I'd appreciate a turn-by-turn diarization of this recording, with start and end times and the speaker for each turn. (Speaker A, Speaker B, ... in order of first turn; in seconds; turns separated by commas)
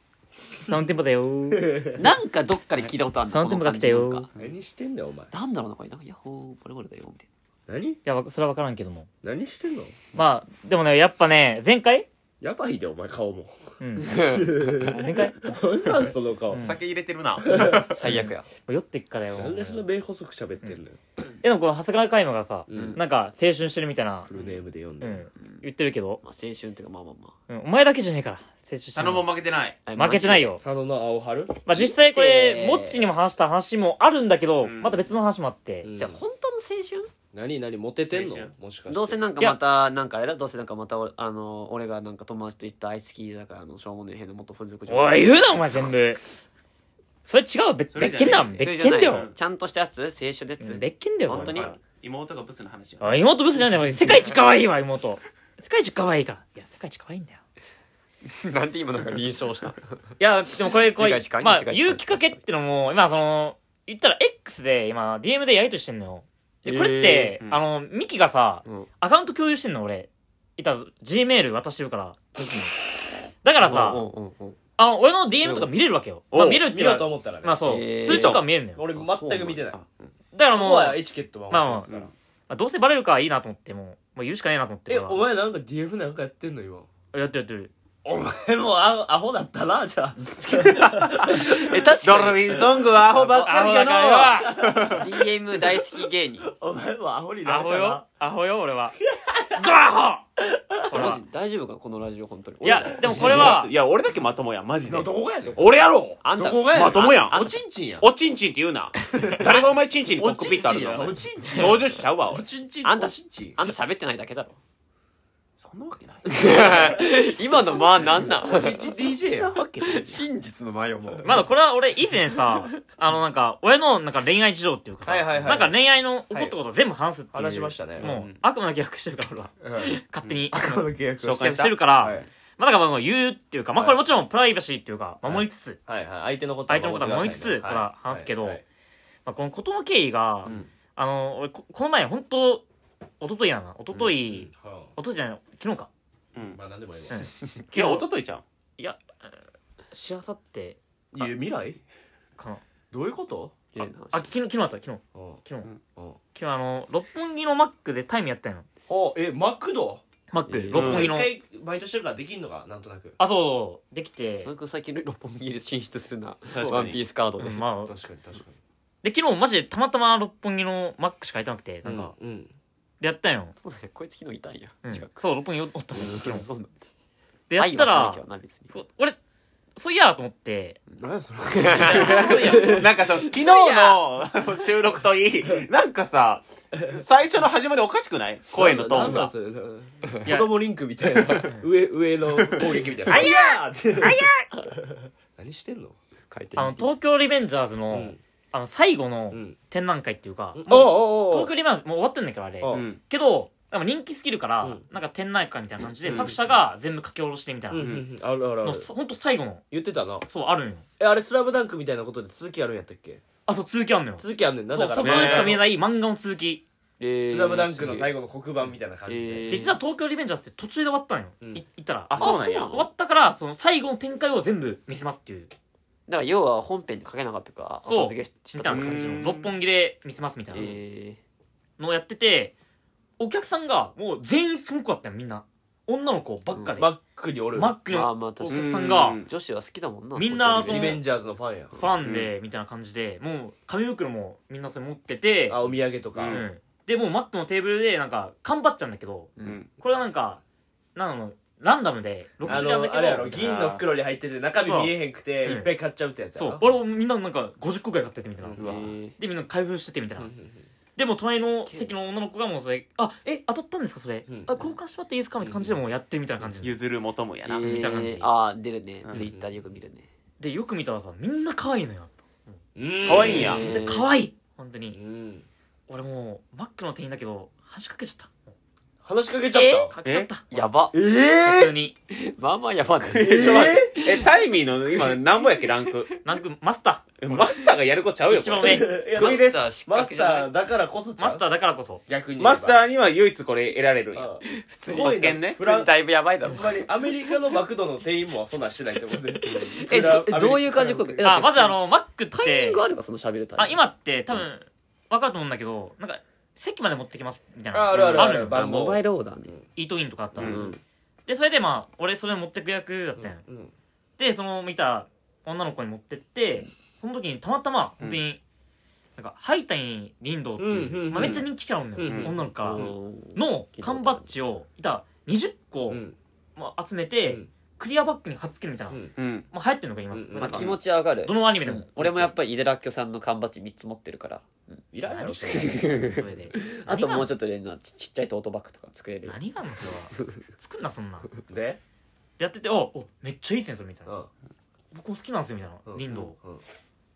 Speaker A: 0.6-1.7, Speaker B: 1.5-2.0, Speaker C: 1.9-4.3, Speaker A: 3.3-4.3, Speaker B: 4.3-5.3, Speaker C: 5.3-7.3, Speaker B: 7.7-8.0, Speaker A: 8.1-9.1, Speaker B: 9.2-10.1, Speaker A: 10.1-12.1, Speaker B: 12.4-16.6, Speaker A: 13.8-16.8, Speaker C: 14.0-15.1, Speaker D: 16.6-18.0, Speaker B: 17.4-18.0, Speaker C: 17.5-18.5, Speaker A: 18.1-19.9, Speaker B: 19.4-21.0, Speaker A: 21.4-24.3, Speaker B: 22.7-23.0, Speaker C: 22.7-23.0, Speaker B: 24.3-25.3, Speaker A: 25.0-26.2, Speaker C: 26.2-27.3, Speaker A: 27.5-29.2, Speaker D: 28.9-29.8, Speaker C: 29.9-30.6, Speaker A: 29.9-30.6, Speaker B: 30.6-31.6, Speaker A: 31.6-35.9, Speaker C: 31.7-33.0, Speaker D: 34.6-35.1, Speaker B: 35.8-36.2, Speaker C: 36.0-37.1, Speaker B: 37.3-39.2, Speaker D: 38.0-38.5, Speaker C: 38.9-46.0, Speaker A: 44.9-46.2, Speaker A: 47.2-49.3, Speaker D: 47.9-49.4, Speaker C: 48.5-51.7, Speaker A: 50.6-51.8, Speaker D: 51.3-53.2, Speaker A: 53.0-57.4, Speaker C: 58.2-60.1, Speaker A: 60.2-72.7, Speaker C: 60.7-62.4, Speaker C: 66.6-67.4, Speaker A: 73.4-74.0, Speaker C: 73.6-74.6, Speaker A: 74.8-78.8, Speaker C: 75.4-75.7, Speaker D: 76.3-76.6, Speaker B: 76.4-79.8, Speaker C: 77.6-79.8, Speaker D: 78.1-78.4, Speaker A: 80.3-85.2, Speaker B: 80.5-81.9, Speaker B: 84.9-86.9, Speaker A: 87.1-87.7, Speaker B: 88.0-91.9, Speaker D: 90.6-95.0, Speaker C: 91.2-93.6, Speaker B: 92.4-93.2, Speaker A: 93.4-94.6, Speaker B: 94.4-98.0, Speaker C: 94.8-96.5, Speaker A: 97.5-99.0, Speaker B: 99.2-99.6, Speaker A: 99.5-100.2, Speaker B: 100.4-101.1, Speaker A: 100.9-101.2, Speaker C: 100.9-103.5, Speaker A: 102.6-103.7, Speaker B: 103.0-103.6, Speaker D: 103.1-107.4, Speaker B: 104.8-108.0, Speaker C: 106.2-107.6, Speaker D: 108.0-112.5, Speaker B: 109.2-109.6, Speaker C: 109.2-109.6, Speaker B: 110.1-113.6, Speaker C: 111.6-111.9, Speaker C: 112.8-114.6, Speaker D: 115.6-120.2, Speaker C: 116.2-118.9, Speaker B: 117.7-119.6, Speaker C: 119.8-121.5, Speaker A: 121.2-135.8, Speaker C: 122.3-122.6, Speaker B: 125.0-125.8, Speaker B: 126.3-126.5, Speaker B: 127.3-128.1, Speaker D: 128.0-128.4, Speaker B: 129.6-130.0, Speaker B: 130.5-132.3, Speaker D: 131.2-131.7, Speaker B: 133.7-134.0, Speaker B: 135.2-138.6, Speaker A: 136.7-138.6, Speaker A: 139.2-142.6, Speaker A: 143.2-145.9, Speaker B: 143.9-144.9, Speaker D: 146.3-146.6, Speaker B: 146.5-147.2, Speaker A: 147.1-148.1, Speaker D: 147.7-148.4, Speaker A: 148.8-149.4, Speaker A: 149.9-151.3, Speaker B: 151.1-151.8, Speaker B: 152.9-153.5, Speaker C: 153.7-154.3, Speaker A: 153.8-155.7, Speaker B: 155.1-155.4, Speaker A: 156.3-158.7, Speaker B: 158.9-160.0, Speaker A: 160.3-161.3, Speaker C: 160.5-160.9, Speaker B: 160.7-163.2, Speaker D: 160.7-161.1, Speaker A: 163.2-164.5, Speaker C: 164.4-167.6, Speaker D: 166.5-167.0, Speaker A: 167.4-167.9, Speaker B: 167.8-168.6, Speaker A: 169.0-172.1, Speaker B: 171.8-172.5, Speaker A: 173.0-173.5, Speaker C: 173.6-175.1, Speaker A: 174.8-176.4, Speaker C: 175.9-176.8, Speaker A: 177.5-179.2, Speaker C: 177.6-178.7, Speaker A: 179.8-180.8, Speaker B: 181.0-182.9, Speaker C: 181.5-184.7, Speaker A: 181.8-182.8, Speaker D: 182.0-189.3, Speaker B: 186.7-187.0, Speaker B: 188.5-196.0, Speaker A: 190.2-190.6, Speaker C: 191.2-191.5, Speaker C: 192.6-194.7, Speaker A: 193.1-193.5, Speaker A: 194.0-194.4, Speaker C: 196.3-196.9, Speaker A: 196.6-207.9, Speaker B: 197.9-198.2, Speaker B: 200.5-201.5, Speaker B: 202.6-202.9, Speaker D: 202.7-203.0, Speaker D: 206.1-206.4, Speaker B: 207.7-208.9, Speaker D: 207.8-208.0, Speaker A: 208.6-209.6, Speaker B: 209.7-210.3, Speaker A: 210.2-210.8, Speaker B: 211.0-213.2, Speaker A: 213.4-216.6, Speaker B: 214.2-215.6, Speaker D: 215.0-215.6, Speaker C: 217.0-218.1, Speaker B: 217.3-219.6, Speaker C: 219.1-219.8, Speaker A: 219.5-225.5, Speaker D: 222.1-222.8, Speaker C: 222.2-222.9, Speaker C: 226.1-229.1, Speaker A: 227.8-230.7, Speaker D: 228.7-229.5, Speaker C: 230.5-231.2, Speaker A: 231.8-232.5, Speaker A: 233.2-236.9, Speaker B: 236.8-237.7, Speaker A: 237.5-239.2, Speaker C: 237.9-241.0, Speaker D: 238.5-239.3, Speaker A: 240.2-241.0, Speaker B: 240.5-241.8, Speaker A: 241.7-245.6, Speaker D: 242.0-242.3, Speaker B: 245.5-246.4, Speaker D: 246.1-246.5, Speaker A: 246.3-250.4, Speaker D: 249.4-249.7, Speaker A: 250.9-253.3, Speaker B: 252.4-256.8, Speaker D: 253.2-253.8, Speaker A: 254.6-255.7, Speaker A: 256.3-260.3, Speaker B: 258.4-258.9, Speaker C: 258.6-259.1, Speaker B: 260.2-260.6, Speaker A: 260.9-266.8, Speaker C: 261.6-261.9, Speaker B: 264.3-264.7, Speaker B: 265.4-265.8, Speaker D: 266.6-267.8, Speaker C: 267.4-270.1, Speaker A: 267.6-268.3, Speaker B: 269.1-269.5, Speaker A: 270.4-272.6, Speaker B: 272.8-273.6, Speaker D: 273.0-273.6, Speaker C: 273.1-274.1, Speaker A: 273.2-275.0, Speaker B: 274.9-275.4, Speaker A: 275.9-278.5, Speaker B: 279.0-279.9, Speaker C: 279.5-279.9, Speaker A: 279.9-280.7, Speaker C: 280.5-280.9, Speaker B: 280.9-281.7, Speaker A: 281.4-281.9, Speaker C: 282.1-285.1, Speaker D: 283.1-286.1, Speaker B: 283.1-284.1, Speaker C: 285.9-286.2, Speaker A: 286.2-287.2, Speaker D: 287.2-289.7, Speaker A: 288.2-288.9, Speaker B: 288.6-291.4, Speaker C: 289.1-290.5, Speaker A: 291.2-292.0, Speaker B: 292.1-292.8, Speaker D: 292.4-294.3, Speaker B: 294.1-295.9, Speaker C: 294.6-297.6, Speaker D: 294.9-295.6, Speaker B: 296.4-301.5, Speaker C: 299.1-301.8, Speaker D: 299.4-299.8, Speaker A: 301.2-302.8, Speaker C: 302.3-303.8, Speaker A: 303.6-308.6, Speaker B: 307.7-309.6, Speaker C: 307.9-309.6, Speaker A: 309.7-310.7, Speaker B: 310.3-310.8, Speaker C: 310.4-310.7, Speaker A: 311.3-313.4, Speaker B: 313.2-313.7, Speaker A: 314.2-318.4, Speaker A: 319.2-326.0, Speaker B: 320.6-322.9, Speaker D: 321.1-321.5, Speaker C: 322.6-324.3, Speaker B: 325.9-326.1, Speaker A: 326.6-332.3, Speaker D: 329.2-329.5, Speaker B: 330.1-330.8, Speaker C: 330.4-334.8, Speaker B: 334.9-336.2, Speaker A: 335.1-337.3, Speaker C: 335.4-340.4, Speaker A: 339.2-341.3, Speaker B: 341.5-341.8, Speaker A: 342.4-344.1, Speaker A: 344.9-346.4, Speaker B: 345.9-346.6